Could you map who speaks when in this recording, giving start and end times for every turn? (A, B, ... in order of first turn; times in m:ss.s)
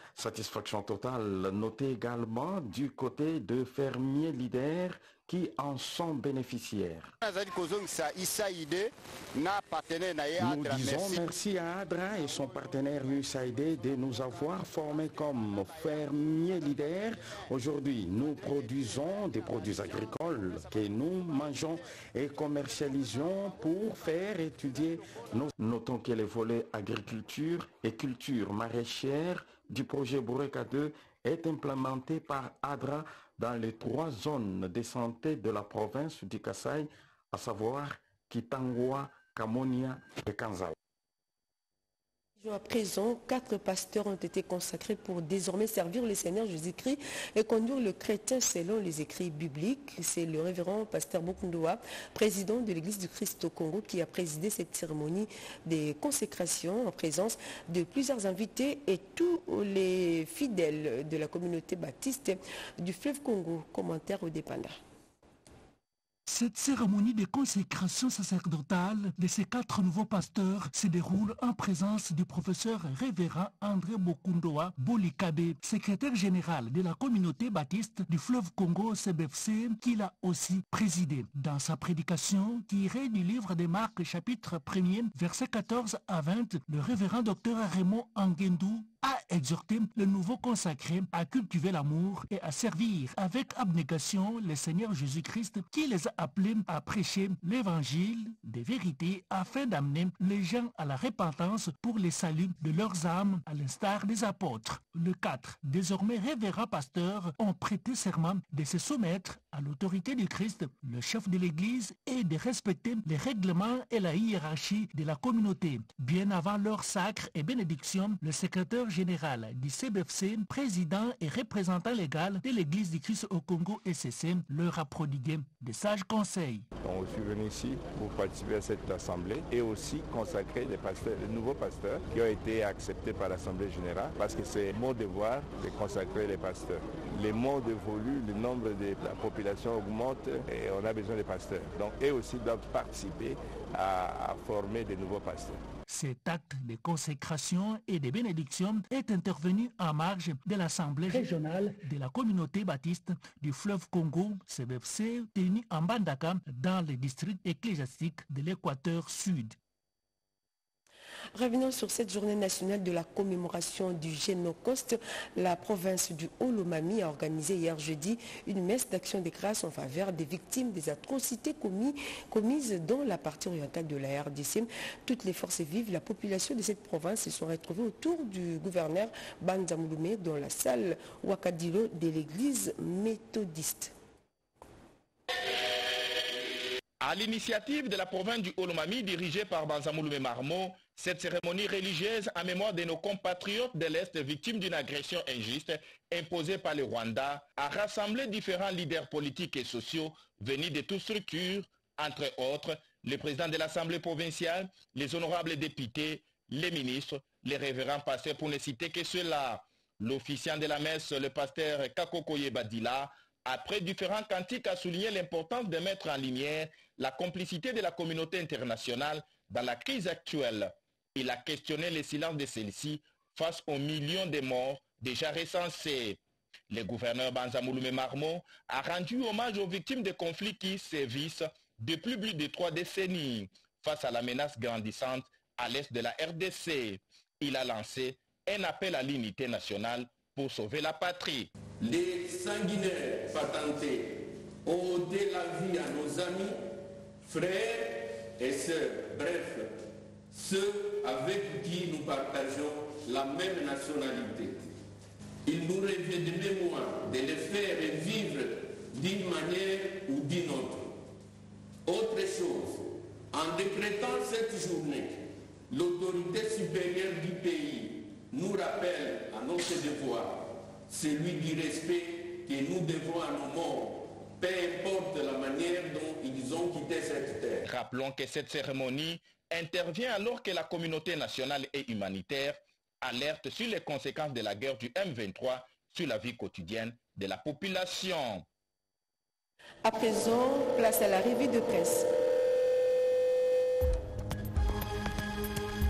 0:00.2-0:07.1 A
0:07.2-0:11.2 B
0:10.4-0:40.7 A
0:42.4-1:04.8 C
1:06.2-2:06.6 D
2:06.8-2:25.6 B
2:25.9-2:39.6 D
2:41.3-3:03.9 C
3:07.0-3:46.2 E
3:46.7-4:01.5 E
4:01.8-4:06.6 F
4:07.2-4:09.7 F
4:10.3-4:14.6 F
4:15.4-4:20.9 F
4:21.8-4:25.2 F
4:25.7-4:37.6 F
4:37.6-4:48.4 E
4:49.8-4:52.1 C